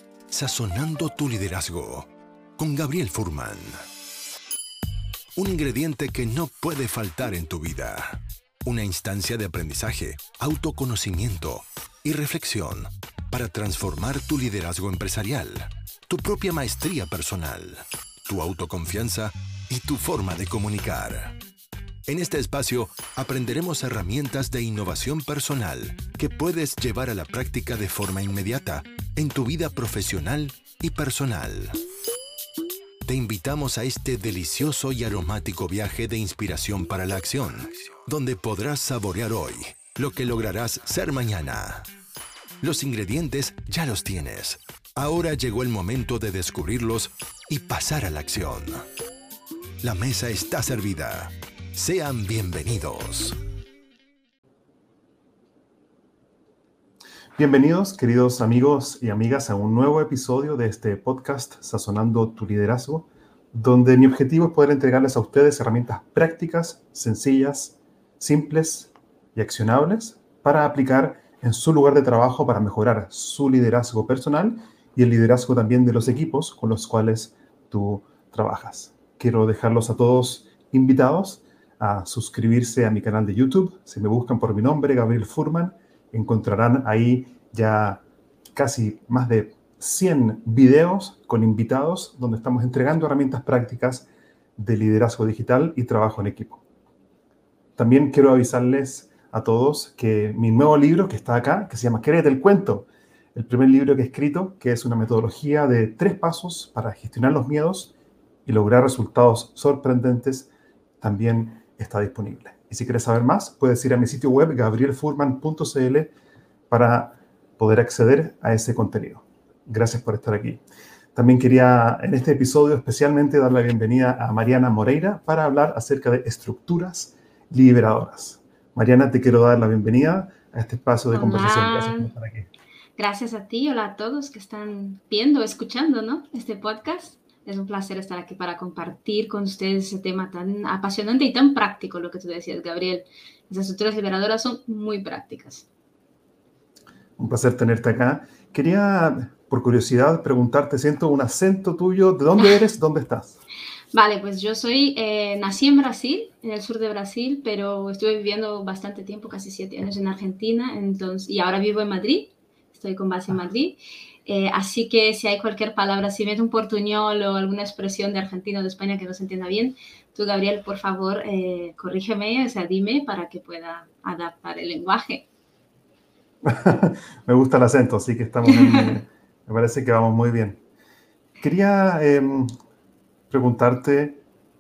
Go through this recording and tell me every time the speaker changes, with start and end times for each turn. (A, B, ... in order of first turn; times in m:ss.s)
0:00.3-0:03.8 A
0:05.4-0:21.4 A
0:22.1-0:31.8 A
0:33.1-0:41.9 A
0:42.6-0:48.9 A
0:49.8-0:53.4 A
0:57.4-1:28.0 B
1:28.6-1:36.6 B
1:37.8-1:47.9 B
1:48.4-1:50.5 B
1:51.0-1:56.1 B
1:56.7-2:00.6 B
2:01.2-2:12.5 B
2:11.1-2:12.1 C
2:13.0-2:25.7 C
2:27.2-2:33.4 B
2:33.9-2:55.2 C
2:56.4-3:00.6 B
2:58.5-2:59.0 C
3:01.4-3:02.5 B
3:03.3-3:04.2 B